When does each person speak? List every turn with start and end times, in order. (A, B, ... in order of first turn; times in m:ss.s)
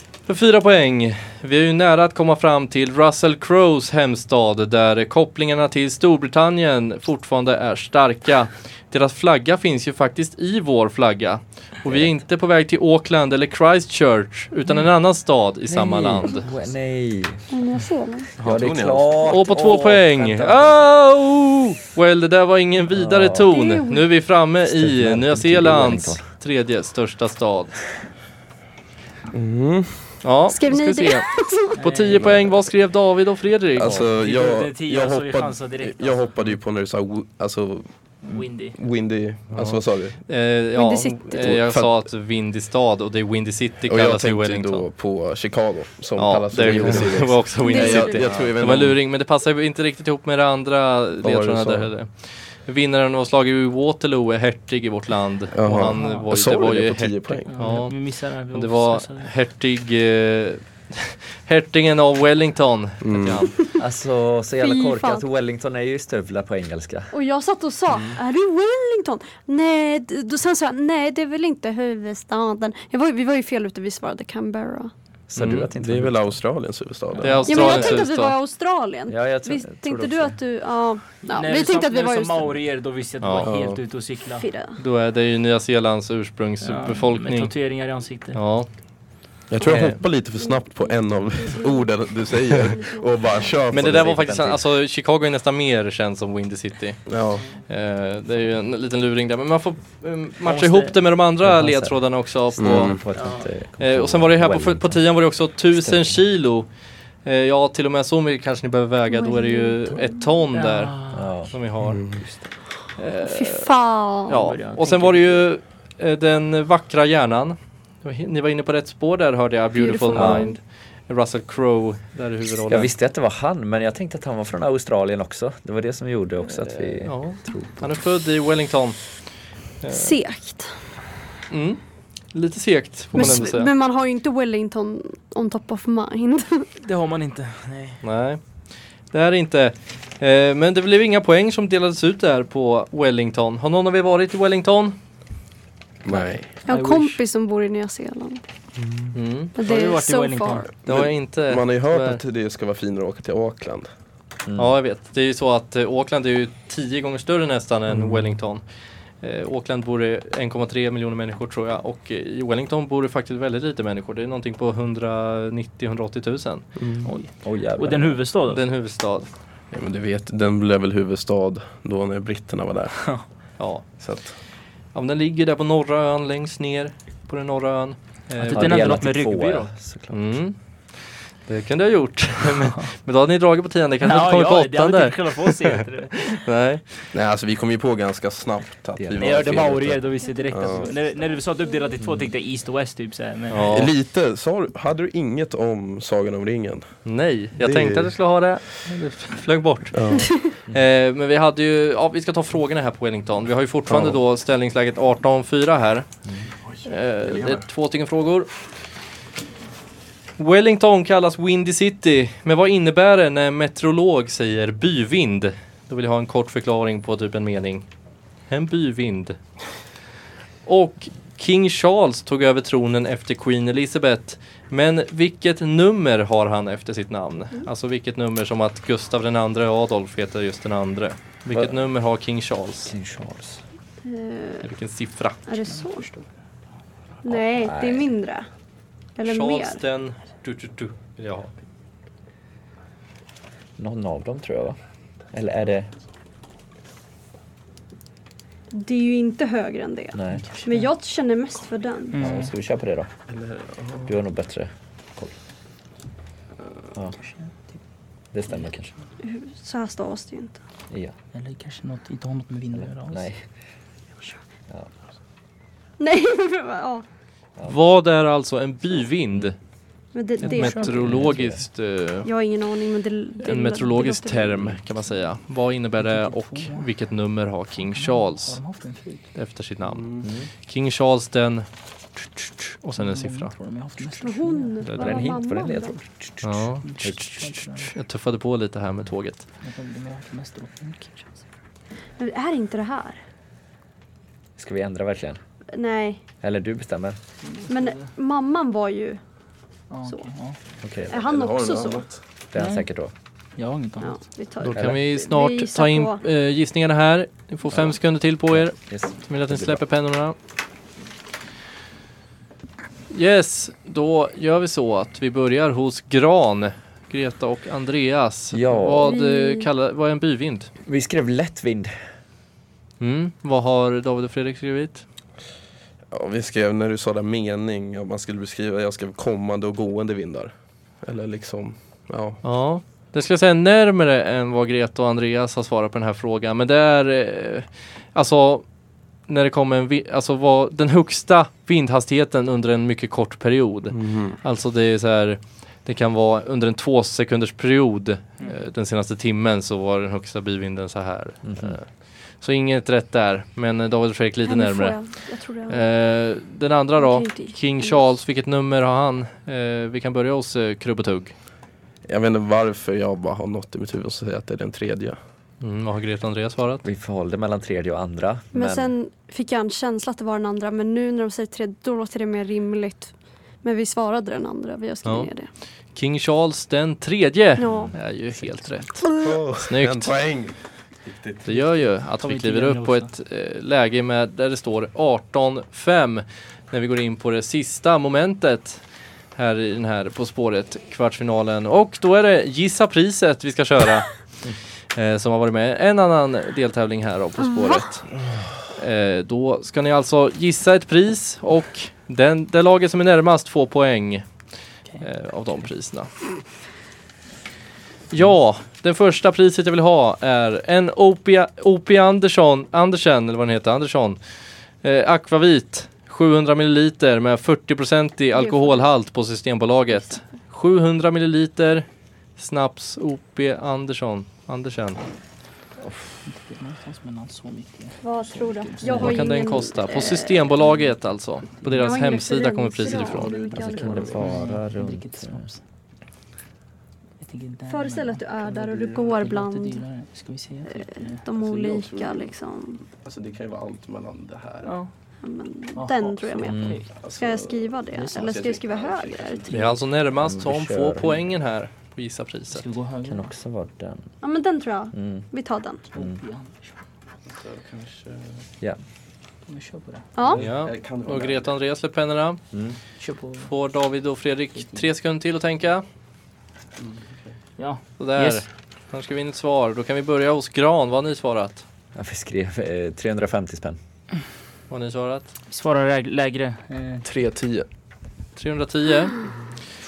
0:00.3-0:16.5 A
0:11.9-0:12.1 B
0:15.7-0:17.5 B
0:17.5-0:18.3 C
0:18.4-0:19.4 D
0:18.4-0:20.8 B
0:19.2-0:27.8 A
0:22.9-0:23.5 B
0:23.5-0:24.1 C
0:24.6-0:26.2 B
0:29.3-0:30.2 D
0:30.2-0:34.0 A
0:30.5-0:31.8 C
0:31.8-0:32.3 E
0:32.2-0:32.6 D
0:33.7-0:40.2 D
0:34.1-0:36.2 E
0:38.2-0:38.8 E
0:39.5-0:44.8 A
0:40.8-0:41.5 C
0:41.3-0:42.0 D
0:43.8-0:49.0 D
0:46.2-0:58.0 A
0:47.6-0:48.2 C
0:51.2-0:51.9 D
0:55.5-0:57.5 D
0:55.9-0:56.3 E
0:57.5-0:59.3 E
0:58.5-1:03.5 A
1:03.0-1:03.5 D
1:03.8-1:07.1 B
1:04.6-1:05.2 C
1:07.1-1:14.9 C
1:15.3-1:16.3 B
1:15.4-1:15.7 A
1:15.7-1:18.0 D
1:17.2-1:17.6 E
1:17.2-1:18.3 A
1:17.5-1:22.5 C
1:19.1-1:20.4 B
1:21.2-1:24.5 E
1:23.2-1:23.5 A
1:23.4-1:23.8 D
1:24.4-1:24.8 C
1:24.8-1:27.5 A
1:26.6-1:28.4 E
1:28.3-1:28.7 A
1:29.5-1:34.2 D
1:29.7-1:29.9 A
1:30.4-1:31.9 C
1:32.5-1:33.6 C
1:33.7-1:34.6 B
1:33.7-1:37.2 A
1:37.1-1:37.4 D
1:37.7-1:43.0 A
1:40.4-1:41.0 E
1:41.4-1:42.0 B
1:42.5-1:45.0 B
1:42.6-1:43.0 D
1:43.1-1:43.5 E
1:43.8-1:46.7 A
1:45.7-1:46.2 B
1:47.2-1:50.9 A
1:49.1-1:50.2 C
1:50.5-1:51.4 E
1:51.1-1:51.5 B
1:51.5-1:52.0 A
1:51.8-1:52.2 D
1:52.1-1:52.4 B
1:53.0-1:53.7 A
1:53.2-1:54.4 C
1:54.3-2:02.9 A
1:54.3-1:55.4 E
1:59.8-2:00.6 C
2:00.1-2:00.4 B
2:02.7-2:07.9 B
2:06.5-2:09.0 A
2:09.8-2:10.2 A
2:09.9-2:10.7 C
2:11.5-2:11.8 A
2:12.3-2:13.7 A
2:13.1-2:16.6 C
2:16.8-2:18.0 E
2:18.0-2:18.4 A
2:19.1-2:25.0 A
2:26.0-2:26.5 D
2:26.6-2:27.2 E
2:26.7-2:28.4 C
2:29.1-2:29.5 A
2:29.5-2:30.7 C
2:29.6-2:30.7 E
2:30.8-2:32.2 A
2:30.8-2:33.9 D
2:34.5-2:34.7 B
2:34.6-2:38.6 A
2:39.2-2:46.7 A
2:46.8-2:47.1 D
2:47.0-2:48.6 E
2:47.4-2:48.2 B
2:48.5-2:49.3 A
2:49.7-2:53.0 D
2:53.0-2:53.2 E
2:53.6-2:53.8 A
2:54.0-2:54.3 D
2:54.9-2:59.0 A
2:58.4-2:59.7 E
2:58.4-3:00.3 B
3:00.1-3:00.6 A
3:01.5-3:07.0 A
3:02.6-3:02.9 E
3:04.0-3:06.4 E
3:07.1-3:10.9 D
3:09.0-3:10.0 B
3:09.2-3:13.8 E
3:10.3-3:10.8 C
3:12.0-3:12.3 B
3:13.5-3:13.9 A
3:13.7-3:16.9 D
3:17.0-3:26.0 A
3:17.6-3:18.1 D
3:19.9-3:20.3 D
3:23.9-3:24.2 D
3:26.7-3:27.6 D
3:26.8-3:28.5 A
3:30.4-3:37.8 A
3:38.5-3:39.4 A
3:40.6-3:52.9 A
3:52.8-3:53.6 B
3:54.0-3:54.7 C
3:54.6-3:55.4 A
3:55.5-3:56.1 C
3:55.7-3:56.2 E
3:57.2-3:58.5 C
3:57.3-3:58.1 B
3:59.2-3:59.8 C
3:59.2-4:01.5 A
4:03.8-4:04.8 B
4:05.3-4:05.9 B
4:08.7-4:12.3 C
4:10.1-4:10.5 B
4:10.3-4:10.9 E
4:12.1-4:12.5 E
4:12.2-4:13.1 B
4:13.3-4:14.2 D
4:14.0-4:15.3 B
4:17.1-4:17.8 E
4:18.3-4:18.9 B
4:19.2-4:20.6 C
4:20.9-4:21.2 B
4:21.3-4:23.3 E
4:22.8-4:23.4 B
4:26.0-4:27.0 C
4:27.6-4:29.6 A
4:30.1-4:31.1 C
4:30.4-4:32.3 A
4:30.4-4:31.3 E
4:31.0-4:31.6 B
4:32.2-4:34.8 C
4:33.4-4:38.6 A
4:36.0-4:36.9 E
4:37.8-4:39.3 E
4:39.3-4:43.5 A
4:39.8-4:40.3 D
4:40.2-4:40.5 B
4:43.0-4:44.8 E
4:44.2-4:46.0 C
4:44.8-4:45.3 A
4:44.9-4:47.3 B
4:46.4-4:49.4 A
4:46.8-4:47.9 E
4:49.6-4:51.1 E
4:52.2-4:53.2 C
4:54.6-4:55.4 B
4:55.7-4:56.2 C
4:56.4-4:57.2 B
4:57.4-4:58.1 E
4:57.6-4:59.2 C
4:59.9-5:00.6 E
5:00.8-5:01.1 B
5:01.0-5:02.2 D
5:01.1-5:02.0 C
5:02.5-5:03.1 B
5:02.6-5:02.8 E
5:03.6-5:04.2 E
5:04.0-5:06.2 C
5:04.6-5:10.4 A
5:04.7-5:05.0 B
5:08.5-5:09.8 B
5:13.1-5:20.7 A
5:18.5-5:19.1 B
5:19.0-5:19.7 C
5:20.9-5:21.9 B
5:23.0-5:25.0 A
5:26.1-5:32.4 D
5:32.4-5:38.6 A
5:39.3-5:51.9 A
5:43.9-5:44.4 D
5:51.4-5:51.8 B
5:52.4-5:55.1 A
5:54.4-5:55.8 C
5:55.7-6:01.3 A
5:57.0-5:58.2 C
6:02.0-6:05.2 D
6:05.6-6:06.8 A
6:06.8-6:08.9 B
6:08.5-6:15.5 C
6:15.0-6:15.3 A
6:15.9-6:19.1 A
6:17.6-6:17.9 C
6:19.0-6:19.3 C
6:19.2-6:21.6 D
6:19.6-6:20.1 A
6:21.4-6:28.8 A
6:22.2-6:23.1 E
6:29.3-6:34.2 A
6:34.9-6:38.1 A
6:37.4-6:37.8 C
6:38.7-6:44.2 A
6:45.0-6:46.1 A
6:48.1-6:54.2 A
6:54.8-7:01.8 A
6:58.3-6:58.8 C
7:02.4-7:05.0 A
7:05.8-7:06.2 B
7:06.2-7:09.5 E
7:08.0-7:10.5 C
7:09.0-7:13.3 A
7:11.8-7:14.3 C
7:12.8-7:14.2 D
7:13.5-7:15.4 B
7:14.1-7:15.6 E
7:17.2-7:21.2 E
7:17.6-7:19.8 C
7:20.7-7:22.8 C
7:21.3-7:22.3 D
7:22.8-7:24.8 D
7:24.6-7:24.9 E
7:25.2-7:29.6 C
7:25.7-7:26.8 E
7:26.4-7:26.8 B
7:26.6-7:29.8 D
7:27.9-7:28.4 E
7:29.5-7:32.6 A
7:30.2-7:31.2 B
7:32.5-7:33.3 E
7:33.0-7:34.0 B
7:34.2-7:35.8 C
7:34.9-7:35.2 B
7:35.9-7:36.8 E
7:35.9-7:36.2 B
7:37.3-7:38.4 D
7:39.4-7:40.4 E
7:40.2-7:40.4 C
7:40.4-7:41.5 D
7:40.4-7:42.4 A
7:42.5-7:42.8 B
7:43.0-7:43.5 E
7:43.5-7:45.8 A
7:46.8-7:47.3 D
7:47.6-7:48.4 E
7:48.0-7:51.6 A
7:51.9-7:53.8 B
7:54.7-7:55.3 A
7:55.5-7:57.0 E
7:57.0-7:57.7 D
7:58.4-7:59.3 A